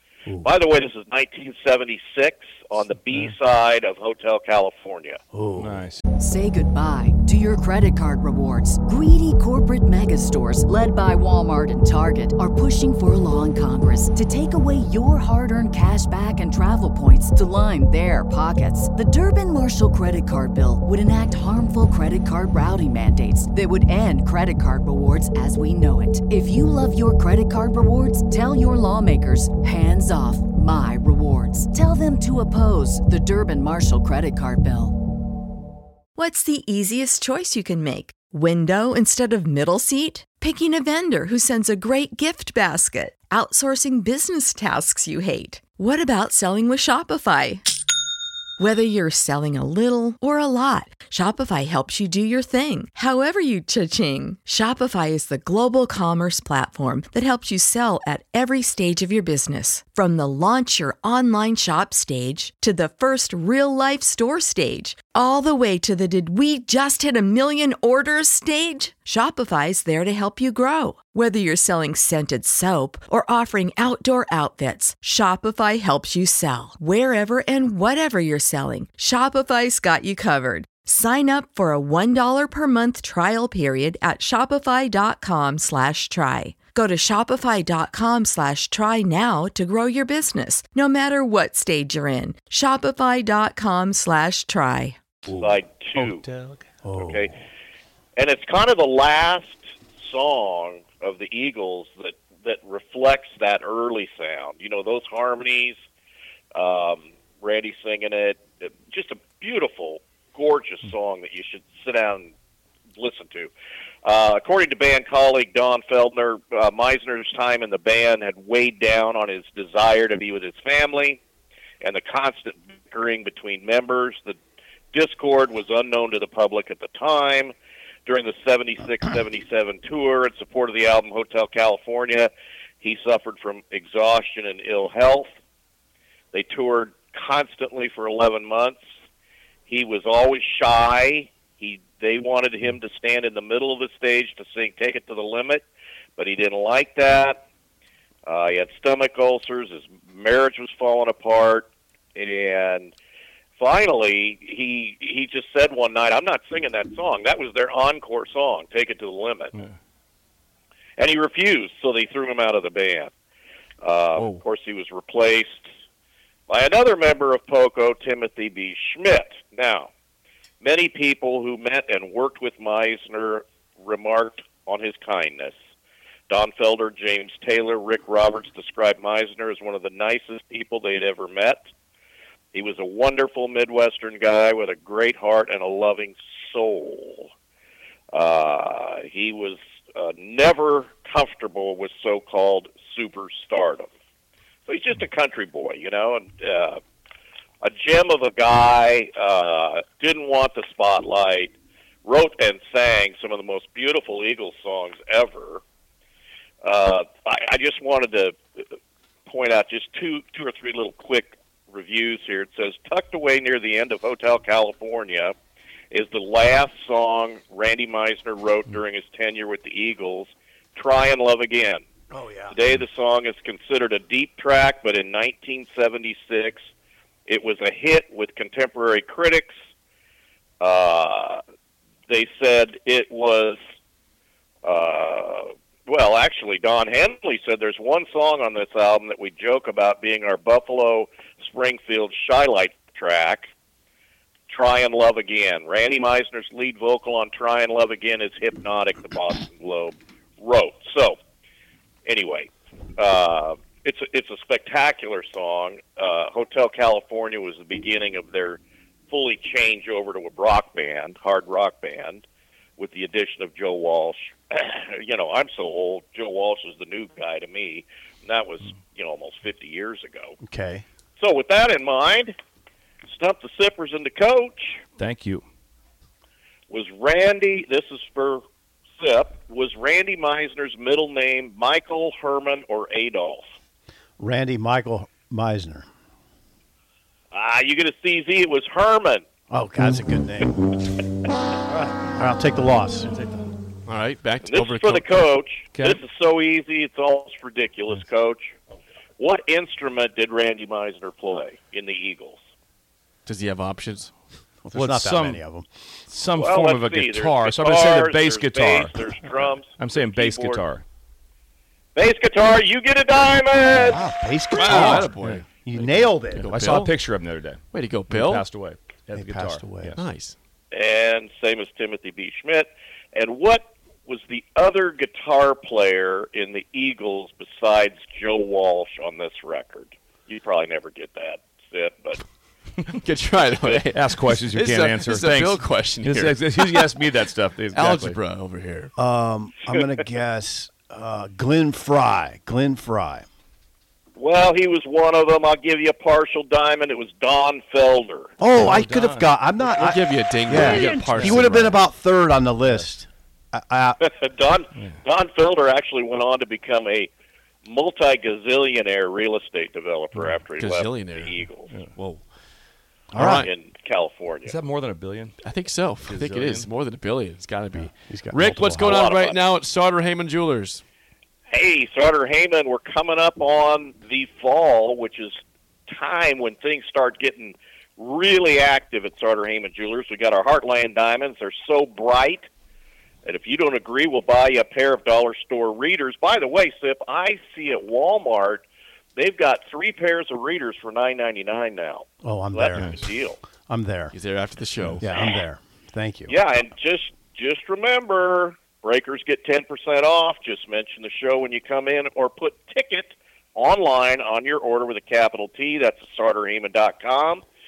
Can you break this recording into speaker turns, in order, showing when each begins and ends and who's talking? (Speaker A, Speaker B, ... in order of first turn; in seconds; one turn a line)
Speaker A: 0.4-5.2
Speaker B: 3.0-3.3
Speaker C: 5.3-5.8
Speaker B: 5.6-6.0
Speaker D: 6.2-34.9
Speaker E: 36.1-47.6
Speaker E: 48.6-95.0
Speaker C: 95.2-95.6
Speaker A: 95.4-96.2
Speaker C: 96.8-97.3
Speaker A: 97.0-97.4
Speaker A: 98.2-105.8
Speaker A: 106.5-112.3
Speaker A: 113.0-113.5
Speaker A: 114.0-121.2
Speaker A: 121.8-124.3
Speaker A: 124.9-127.5
Speaker A: 128.1-135.3
Speaker A: 136.3-138.8
Speaker A: 139.7-145.6
Speaker A: 146.2-147.4
Speaker A: 148.2-152.9
Speaker A: 153.6-159.5
Speaker A: 161.0-163.1
Speaker A: 163.8-165.7
Speaker F: 164.2-164.4
Speaker A: 166.5-169.9
Speaker A: 170.6-175.5
Speaker A: 176.3-181.6
Speaker A: 182.5-187.3
Speaker A: 188.1-193.9
Speaker A: 194.7-196.8
Speaker A: 197.6-201.5
Speaker A: 202.1-205.6
Speaker A: 206.6-208.6
Speaker A: 209.3-215.3
Speaker A: 215.9-221.8
Speaker C: 222.1-222.6
Speaker A: 222.5-226.6
Speaker A: 227.3-229.5
Speaker A: 230.6-231.4
Speaker A: 232.1-233.6
Speaker A: 234.6-243.5
Speaker A: 244.5-251.2
Speaker A: 252.1-258.6
Speaker A: 259.1-262.2
Speaker A: 262.8-270.3
Speaker C: 270.4-270.9
Speaker A: 271.2-272.3
Speaker A: 273.1-274.8
Speaker B: 275.0-275.4
Speaker A: 276.7-278.4
Speaker A: 279.0-283.4
Speaker C: 284.2-285.9
Speaker A: 287.3-289.2
Speaker C: 289.5-290.6
Speaker C: 291.8-293.1
Speaker F: 293.9-295.2
Speaker A: 294.4-298.5
Speaker B: 295.7-296.0
Speaker A: 299.2-302.4
Speaker F: 303.2-304.1
Speaker C: 304.6-305.7
Speaker B: 304.7-305.4
Speaker B: 306.1-310.8
Speaker A: 306.4-310.6
Speaker A: 311.9-314.0
Speaker C: 313.7-316.9
Speaker B: 314.5-315.4
Speaker F: 314.8-315.3
Speaker B: 316.0-320.0
Speaker F: 316.4-316.8
Speaker F: 317.7-318.4
Speaker C: 319.1-320.0
Speaker F: 320.0-320.4
Speaker A: 320.7-332.2
Speaker F: 333.0-336.8
Speaker B: 333.5-338.2
Speaker F: 337.7-338.9
Speaker C: 339.0-343.3
Speaker A: 344.1-348.3
Speaker C: 348.4-354.0
Speaker B: 348.5-349.4
Speaker F: 349.6-351.7
Speaker A: 350.9-351.2
Speaker A: 354.0-357.1
Speaker A: 357.6-361.7
Speaker B: 360.1-360.5
Speaker F: 360.6-362.2
Speaker C: 363.1-363.5
Speaker A: 363.2-364.5
Speaker B: 364.4-365.3
Speaker F: 365.4-370.8
Speaker B: 366.0-366.7
Speaker C: 367.7-369.1
Speaker A: 368.8-369.4
Speaker A: 371.5-375.4
Speaker A: 375.9-382.4
Speaker A: 383.2-388.6
Speaker A: 389.1-393.4
Speaker C: 392.2-393.0
Speaker C: 393.6-394.1
Speaker F: 394.1-394.9
Speaker B: 394.8-395.0
Speaker C: 395.0-396.3
Speaker A: 396.3-407.4